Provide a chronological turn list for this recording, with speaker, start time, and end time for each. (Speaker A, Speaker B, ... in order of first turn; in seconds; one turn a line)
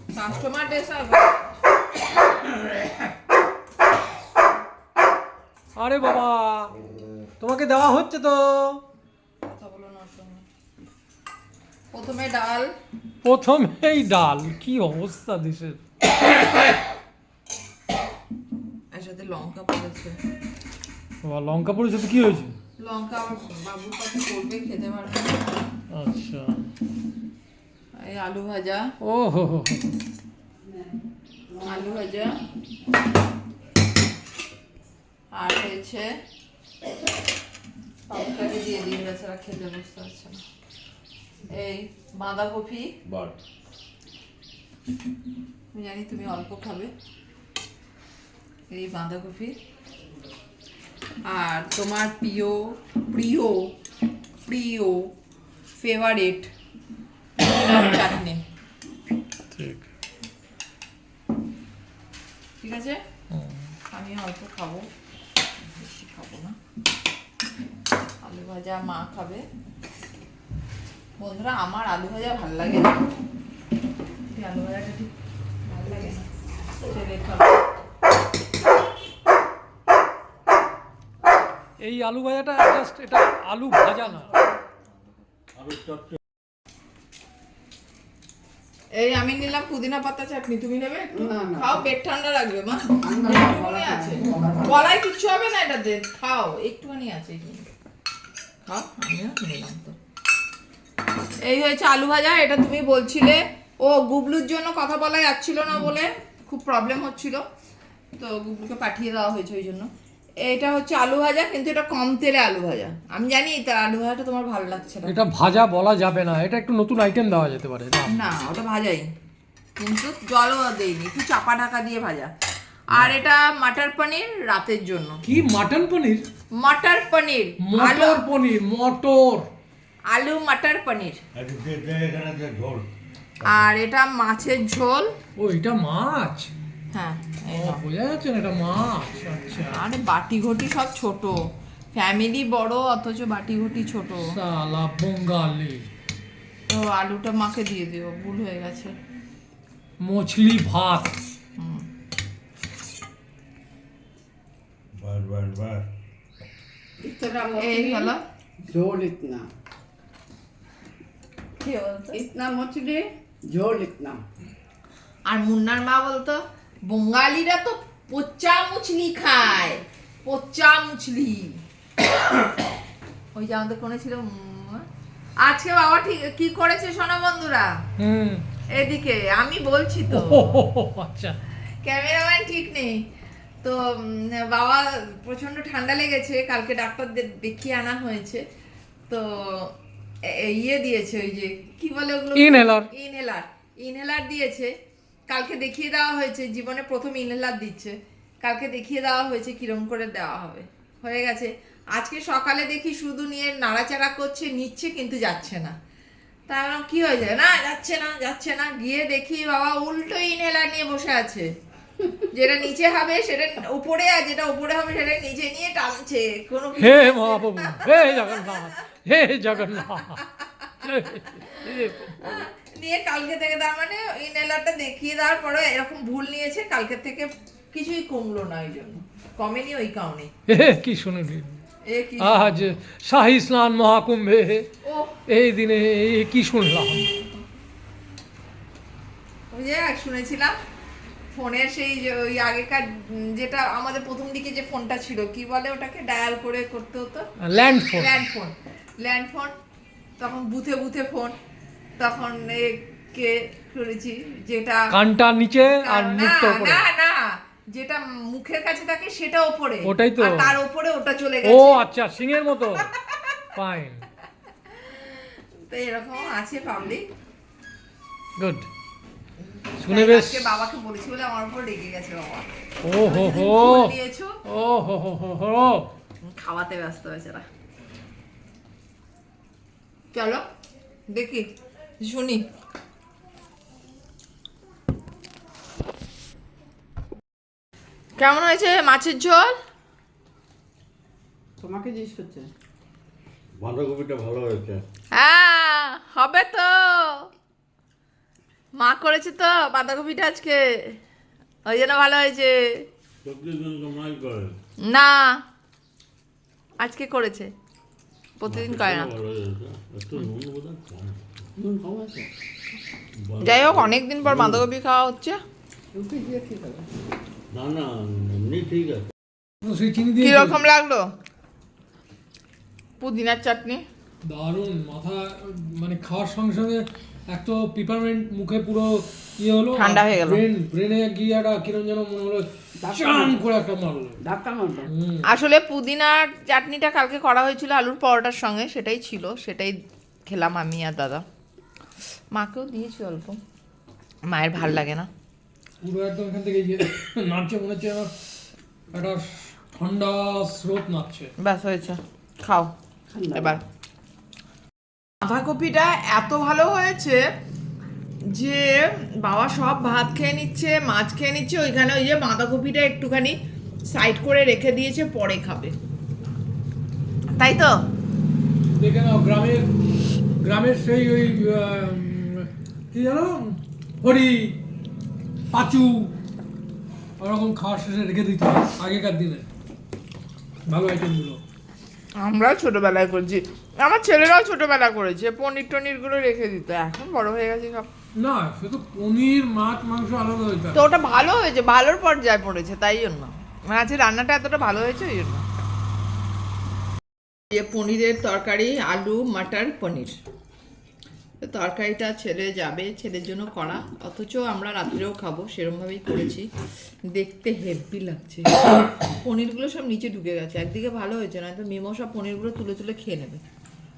Speaker A: 0.1-1.5
Speaker B: 5.8-6.7
Speaker B: 7.4-8.8
Speaker A: 9.4-10.4
Speaker A: 11.9-12.7
Speaker B: 13.2-15.8
Speaker A: 18.9-20.2
Speaker B: 21.2-22.6
Speaker A: 22.8-25.5
Speaker B: 25.9-26.6
Speaker A: 28.0-28.9
Speaker B: 29.0-29.8
Speaker A: 31.6-32.4
Speaker A: 35.3-36.1
Speaker A: 38.1-40.4
Speaker A: 41.5-43.0
Speaker C: 43.1-43.4
Speaker A: 45.7-46.9
Speaker A: 48.7-49.6
Speaker A: 51.2-53.8
Speaker A: 54.5-55.1
Speaker A: 55.8-56.5
Speaker A: 57.4-58.4
Speaker B: 59.5-59.9
Speaker A: 62.6-63.0
Speaker B: 63.3-63.6
Speaker A: 63.9-64.9
Speaker A: 65.8-66.6
Speaker A: 68.2-69.4
Speaker A: 71.2-73.1
Speaker A: 74.3-75.1
Speaker A: 75.7-76.3
Speaker A: 76.8-77.6
Speaker B: 81.8-84.3
Speaker C: 85.6-86.2
Speaker A: 88.9-97.7
Speaker D: 91.1-91.9
Speaker D: 93.0-94.7
Speaker A: 98.7-100.0
Speaker A: 101.4-107.4
Speaker A: 108.2-109.9
Speaker A: 110.4-115.2
Speaker B: 115.0-118.2
Speaker A: 118.1-119.1
Speaker A: 119.8-122.3
Speaker A: 122.9-125.2
Speaker B: 125.2-126.2
Speaker A: 126.5-128.2
Speaker B: 127.6-129.5
Speaker A: 130.1-131.2
Speaker C: 131.3-132.9
Speaker A: 133.4-135.1
Speaker B: 135.4-136.5
Speaker A: 136.9-137.8
Speaker B: 137.5-139.8
Speaker A: 139.7-144.3
Speaker B: 144.2-145.9
Speaker A: 146.7-148.9
Speaker B: 150.0-151.2
Speaker A: 151.6-151.9
Speaker C: 154.9-155.9
Speaker D: 157.0-158.1
Speaker A: 157.5-158.2
Speaker D: 158.6-159.5
Speaker A: 161.6-162.2
Speaker D: 162.1-164.2
Speaker A: 165.3-171.6
Speaker A: 173.3-174.8
Speaker A: 175.4-177.8
Speaker B: 178.0-178.4
Speaker A: 178.7-180.6
Speaker B: 180.1-181.4
Speaker A: 181.8-183.1
Speaker A: 183.6-188.4
Speaker A: 189.1-189.7
Speaker A: 190.2-194.7
Speaker B: 192.3-192.9
Speaker A: 195.3-205.8
Speaker A: 206.5-211.5
Speaker A: 212.2-218.7
Speaker B: 216.8-220.3
Speaker B: 220.8-222.4
Speaker A: 222.2-230.3
Speaker B: 230.5-231.6
Speaker A: 231.9-232.7
Speaker B: 232.2-234.7
Speaker A: 234.8-235.2
Speaker B: 235.3-237.0
Speaker A: 236.9-237.4
Speaker A: 239.5-240.6
Speaker A: 241.3-247.3
Speaker B: 247.4-248.1
Speaker A: 248.0-249.5
Speaker A: 250.2-251.3
Speaker A: 252.0-254.9
Speaker B: 254.9-256.9
Speaker A: 255.6-261.9
Speaker B: 259.8-260.6
Speaker B: 261.4-262.9
Speaker B: 263.6-264.1
Speaker A: 264.9-265.1
Speaker A: 265.7-267.0
Speaker B: 268.4-268.7
Speaker A: 269.4-274.4
Speaker B: 269.8-270.5
Speaker B: 272.8-273.9
Speaker B: 274.5-275.9
Speaker A: 276.2-277.4
Speaker A: 280.1-280.4
Speaker A: 281.1-281.5
Speaker A: 282.0-282.4
Speaker A: 288.2-289.6
Speaker D: 291.6-292.5
Speaker C: 293.6-294.8
Speaker A: 295.1-297.3
Speaker A: 298.8-301.0
Speaker A: 301.7-302.8
Speaker C: 303.2-304.6
Speaker A: 304.8-305.4
Speaker A: 306.8-307.5
Speaker A: 308.4-309.1
Speaker C: 308.5-311.3
Speaker D: 311.6-312.3
Speaker C: 313.2-314.6
Speaker A: 313.4-315.4
Speaker D: 315.9-316.9
Speaker C: 317.5-319.1
Speaker B: 319.6-320.6
Speaker A: 320.2-321.1
Speaker A: 323.0-323.8
Speaker B: 324.2-334.2
Speaker A: 329.7-330.4
Speaker D: 332.8-333.4
Speaker D: 334.2-334.9
Speaker B: 334.9-335.2
Speaker A: 335.3-339.8
Speaker A: 340.3-341.2
Speaker A: 342.3-343.4
Speaker A: 344.3-345.1
Speaker B: 345.8-348.1
Speaker B: 348.9-351.3
Speaker A: 351.4-352.7
Speaker D: 353.1-353.6
Speaker A: 353.4-353.6
Speaker A: 355.2-357.2
Speaker A: 358.3-365.8
Speaker A: 367.3-367.8
Speaker B: 368.8-369.7
Speaker B: 370.4-374.6
Speaker B: 375.5-376.1
Speaker B: 377.2-379.5
Speaker B: 380.7-381.4
Speaker A: 382.2-387.9
Speaker B: 388.2-390.9
Speaker A: 390.7-395.4
Speaker A: 397.5-400.1
Speaker A: 401.4-406.5
Speaker A: 407.1-408.6
Speaker A: 409.2-413.4